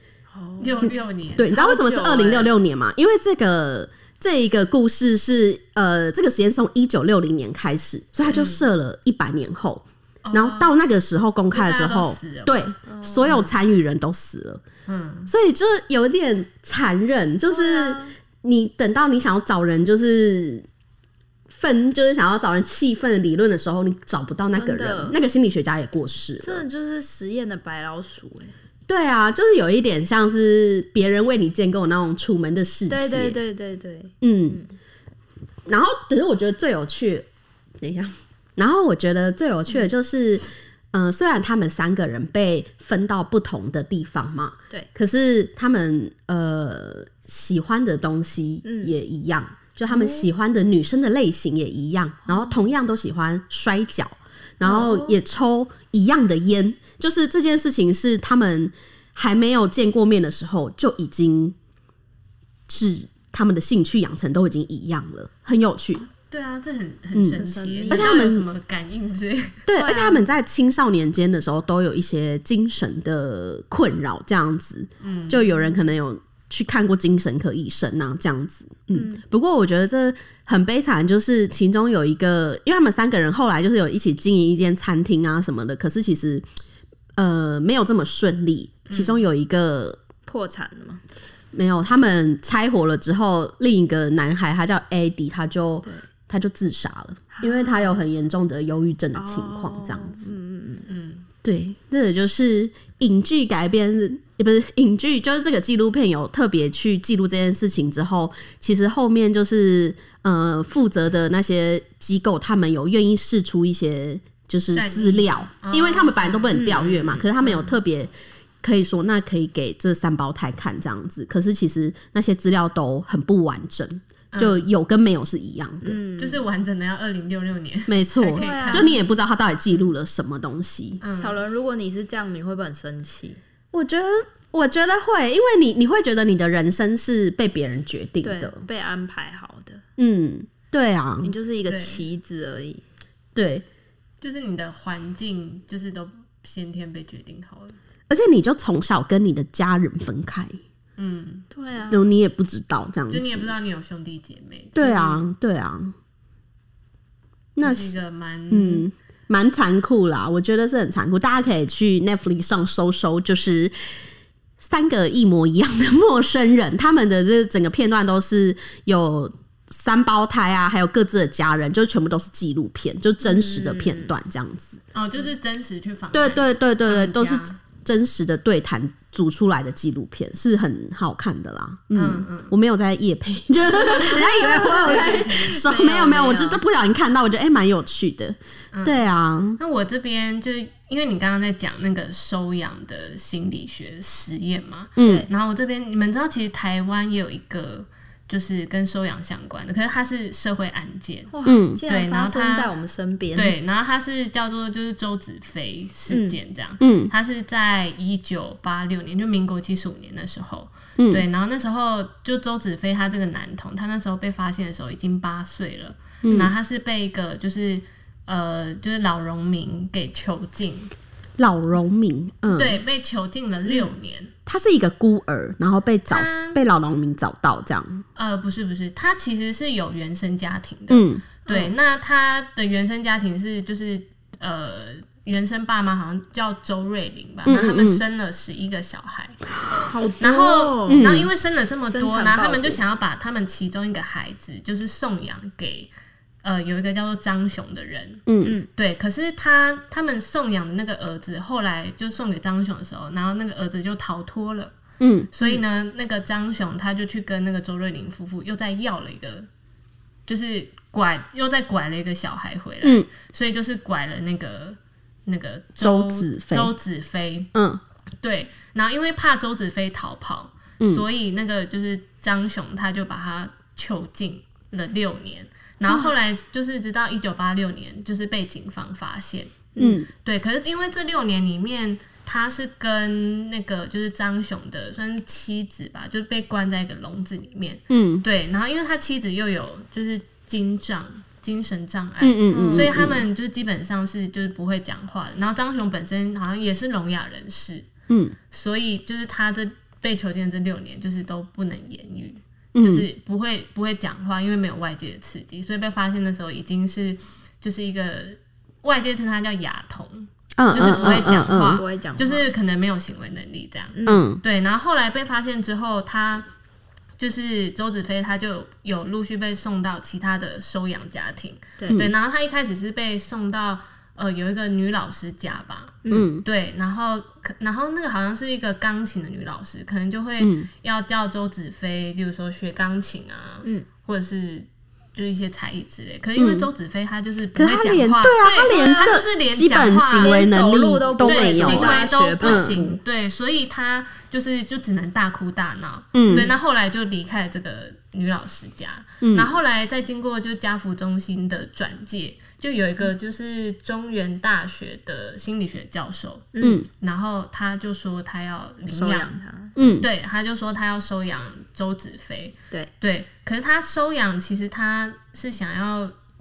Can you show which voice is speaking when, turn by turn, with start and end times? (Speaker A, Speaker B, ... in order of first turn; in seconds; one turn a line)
Speaker A: 0.3-2.5
Speaker B: 0.6-1.5
Speaker C: 1.4-14.6
Speaker B: 8.3-8.7
Speaker B: 10.2-10.8
Speaker B: 11.5-12.6
Speaker A: 12.9-13.6
Speaker B: 14.9-15.3
Speaker C: 15.3-20.6
Speaker A: 17.5-18.1
Speaker C: 21.5-26.6
Speaker A: 24.5-25.2
Speaker A: 26.4-28.5
Speaker C: 28.9-33.4
Speaker A: 32.9-34.7
Speaker C: 34.2-34.6
Speaker C: 35.7-37.3
Speaker C: 37.8-61.5
Speaker A: 48.6-48.9
Speaker A: 49.9-50.3
Speaker A: 54.6-55.2
Speaker C: 62.7-66.0
Speaker B: 66.1-69.7
Speaker C: 67.1-68.5
Speaker A: 67.4-68.2
Speaker C: 69.7-86.5
Speaker A: 69.8-70.2
Speaker B: 75.0-75.5
Speaker A: 78.9-79.2
Speaker C: 87.2-90.0
Speaker B: 88.9-89.2
Speaker A: 90.2-91.0
Speaker C: 91.5-100.3
Speaker A: 97.3-97.9
Speaker A: 99.1-100.9
Speaker B: 100.9-101.2
Speaker C: 101.4-118.1
Speaker B: 114.7-117.6
Speaker A: 116.5-117.3
Speaker C: 118.6-126.0
Speaker B: 124.3-124.7
Speaker A: 125.8-126.4
Speaker B: 126.2-128.9
Speaker C: 127.9-131.0
Speaker A: 128.3-129.0
Speaker B: 131.0-131.4
Speaker A: 131.1-133.4
Speaker C: 133.7-138.6
Speaker A: 138.2-139.8
Speaker C: 140.0-141.3
Speaker A: 141.2-142.8
Speaker B: 141.7-142.0
Speaker C: 143.3-143.7
Speaker B: 144.2-147.8
Speaker C: 148.1-150.6
Speaker B: 151.0-151.4
Speaker A: 151.5-152.1
Speaker C: 151.9-153.5
Speaker B: 153.1-155.3
Speaker C: 154.8-155.9
Speaker C: 157.6-158.0
Speaker B: 157.6-158.9
Speaker C: 158.5-163.7
Speaker C: 164.6-174.8
Speaker A: 173.2-174.1
Speaker B: 174.9-177.5
Speaker C: 176.1-189.6
Speaker B: 181.9-182.5
Speaker B: 183.8-185.5
Speaker A: 183.8-186.6
Speaker B: 188.7-189.0
Speaker B: 189.6-201.3
Speaker C: 195.0-195.3
Speaker A: 195.0-195.3
Speaker A: 201.3-203.6
Speaker C: 201.4-201.8
Speaker B: 201.9-202.7
Speaker B: 203.3-220.9
Speaker A: 206.1-206.4
Speaker C: 206.8-207.1
Speaker C: 211.0-211.2
Speaker C: 216.2-216.5
Speaker C: 221.4-222.8
Speaker B: 222.5-224.3
Speaker C: 224.5-228.0
Speaker B: 226.1-226.6
Speaker B: 228.2-239.4
Speaker C: 230.9-231.2
Speaker C: 237.4-238.0
Speaker A: 239.7-241.2
Speaker B: 240.2-245.9
Speaker C: 240.9-241.3
Speaker A: 241.9-242.8
Speaker B: 246.4-254.7
Speaker C: 248.2-248.6
Speaker A: 248.4-248.7
Speaker C: 255.0-255.3
Speaker B: 255.3-259.5
Speaker B: 260.3-267.5
Speaker C: 265.8-266.7
Speaker C: 267.5-267.8
Speaker B: 268.2-297.9
Speaker C: 270.8-271.1
Speaker C: 279.8-280.1
Speaker C: 287.9-288.2
Speaker C: 292.2-293.3
Speaker A: 292.5-292.9
Speaker C: 298.1-298.4
Speaker B: 298.5-316.5
Speaker C: 302.7-303.1
Speaker C: 310.6-311.8
Speaker A: 310.8-312.4
Speaker A: 313.9-314.2
Speaker C: 314.1-314.4
Speaker B: 317.2-340.5
Speaker A: 321.8-322.0
Speaker A: 326.0-326.3
Speaker C: 326.1-326.4
Speaker C: 330.4-330.7
Speaker C: 336.4-336.7
Speaker C: 337.5-342.8
Speaker A: 338.7-339.2
Speaker A: 340.2-343.0
Speaker B: 341.2-359.4
Speaker C: 346.1-346.5
Speaker A: 346.2-346.5
Speaker C: 349.2-349.6
Speaker A: 356.5-356.8
Speaker C: 356.6-356.9
Speaker A: 358.9-359.8
Speaker C: 359.8-360.1
Speaker B: 360.0-366.1